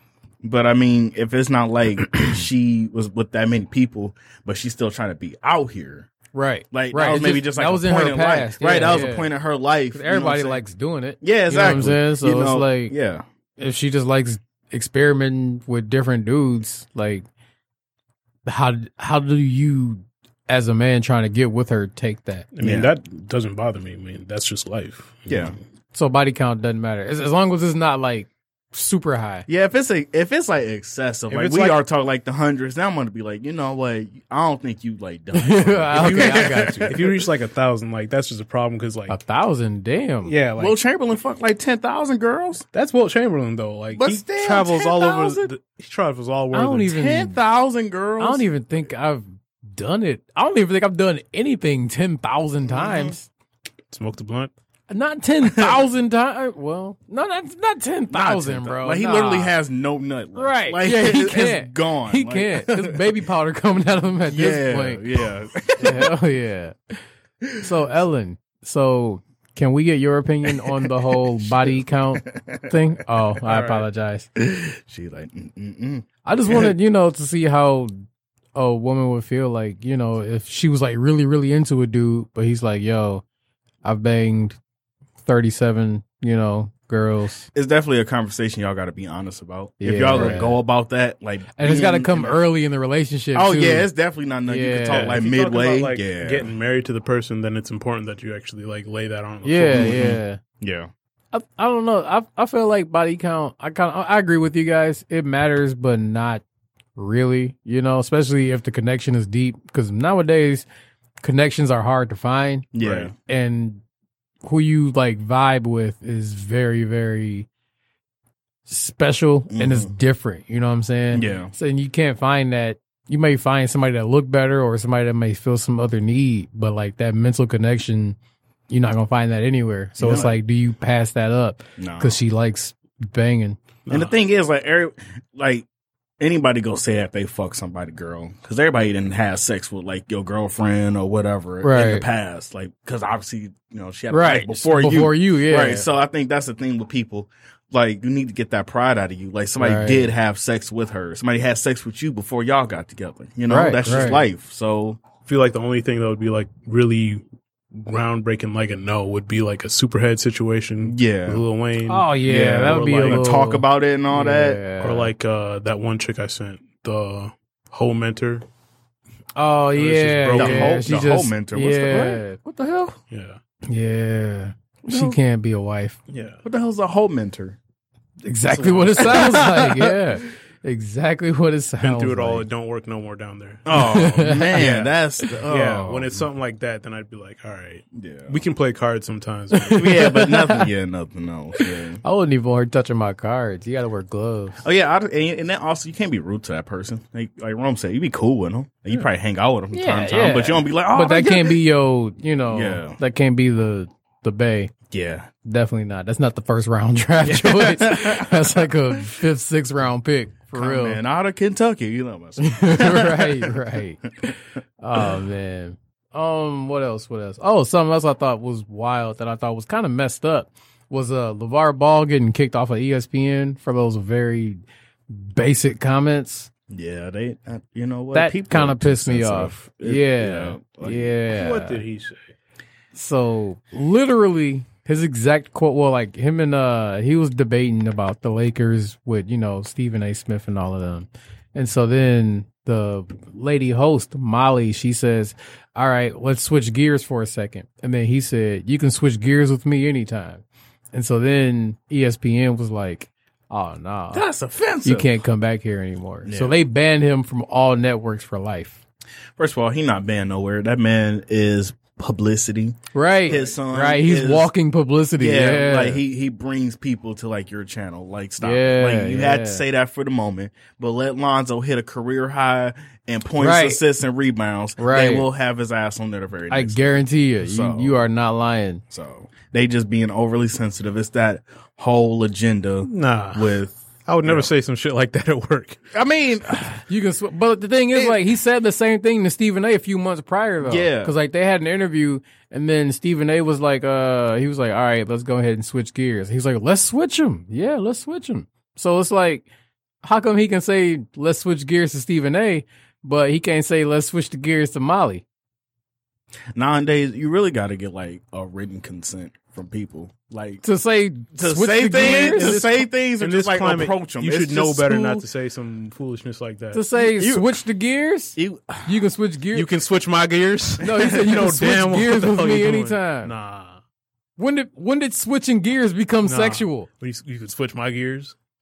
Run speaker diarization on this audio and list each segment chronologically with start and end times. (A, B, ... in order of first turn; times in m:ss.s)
0:00.4-0:06.1 A
0:06.3-0:09.3 B
0:06.7-0:10.6 A
0:09.9-0:12.9 B
0:11.2-0:13.2 A
0:13.6-0:17.2 B
0:18.4-0:22.5 B
0:22.5-0:25.6 C
0:22.6-0:22.9 A
0:25.3-0:25.6 A
0:25.9-0:29.4 B
0:29.5-0:37.2 A
0:31.3-0:31.8 C
0:35.3-0:36.9 B
0:35.9-0:39.2 C
0:39.1-0:40.3 B
0:40.2-0:40.8 C
0:40.6-0:42.6 A
0:42.7-0:46.9 C
0:43.9-0:45.5 A
0:46.5-0:47.4 B
0:46.9-0:48.5 A
0:48.2-0:53.3 B
0:52.6-0:53.2 A
0:53.9-0:54.5 C
0:54.9-0:59.5 B
0:55.4-0:55.8 A
0:58.1-1:03.1 A
1:00.3-1:05.0 B
1:04.3-1:06.1 A
1:05.8-1:07.0 B
1:07.6-1:14.3 B
1:10.4-1:12.7 A
1:13.4-1:13.8 A
1:14.4-1:16.7 A
1:16.2-1:17.9 B
1:18.5-1:23.2 B
1:23.8-1:24.6 B
1:25.2-1:27.5 B
1:27.5-1:32.4 A
1:29.8-1:30.6 B
1:30.1-1:30.4 C
1:31.5-1:33.9 B
1:33.3-1:36.5 A
1:34.5-1:35.2 B
1:34.9-1:40.1 C
1:39.4-1:40.4 B
1:39.7-1:40.9 A
1:41.3-1:46.4 B
1:47.0-1:50.6 B
1:51.2-1:53.8 B
1:52.7-1:53.1 A
1:54.4-1:57.5 B
1:58.7-2:08.2 B
1:59.5-1:59.9 A
2:01.1-2:01.5 A
2:08.7-2:13.6 B
2:10.0-2:10.4 A
2:11.8-2:12.2 A
2:13.9-2:14.1 C
2:13.9-2:15.6 A
2:16.2-2:35.0 A
2:21.6-2:22.0 B
2:24.1-2:25.8 B
2:29.6-2:30.1 B
2:33.5-2:34.2 B
2:35.2-2:43.3 C
2:40.8-2:41.4 A
2:41.8-2:45.1 B
2:42.2-2:44.6 A
2:44.8-2:48.4 C
2:49.4-2:52.4 B
2:49.7-2:51.0 C
2:50.3-2:53.0 A
2:53.1-2:53.4 C
2:53.7-2:56.0 B
2:54.8-2:55.2 A
2:56.1-2:56.4 C
2:56.4-2:57.6 A
2:58.2-3:02.4 B
2:58.5-3:00.0 A
3:01.8-3:04.9 C
3:03.6-3:06.2 A
3:03.7-3:05.3 B
3:05.5-3:10.0 C
3:07.9-3:08.4 A
3:09.7-3:12.0 A
3:09.7-3:10.7 B
3:11.6-3:14.6 B
3:14.6-3:21.6 A
3:19.7-3:24.7 B
3:22.5-3:23.0 A
3:24.9-3:25.3 A
3:25.4-3:31.0 B
3:27.2-3:29.1 A
3:30.5-3:33.5 A
3:32.4-3:34.0 B
3:34.8-3:46.5 B
3:46.7-3:51.1 A
3:48.1-3:51.8 B
3:51.3-3:52.2 C
3:52.9-4:14.3 B
4:14.1-4:15.1 A
4:14.8-4:18.8 B
4:16.2-4:16.6 A
4:19.4-4:24.5 A
4:22.9-4:26.0 B
4:25.2-4:38.1 A
4:28.4-4:29.6 B
4:33.4-4:33.8 B
4:34.8-4:35.3 B
4:36.5-4:38.8 B
4:38.9-4:44.5 A
4:42.8-4:45.8 C
4:45.9-4:46.8 A
4:46.9-4:59.5 B
4:47.9-4:48.2 A
4:50.6-4:51.1 A
5:00.0-5:05.2 B
5:06.6-5:10.6 A
5:10.6-5:12.6 B
5:11.3-5:15.2 A
5:11.9-5:16.8 C
5:16.7-5:19.7 B
5:16.9-5:17.6 A
5:18.4-5:19.0 A
5:19.5-5:23.8 C
5:20.8-5:23.3 B
5:20.9-5:21.3 A
5:24.4-5:26.9 B
5:26.2-5:28.4 C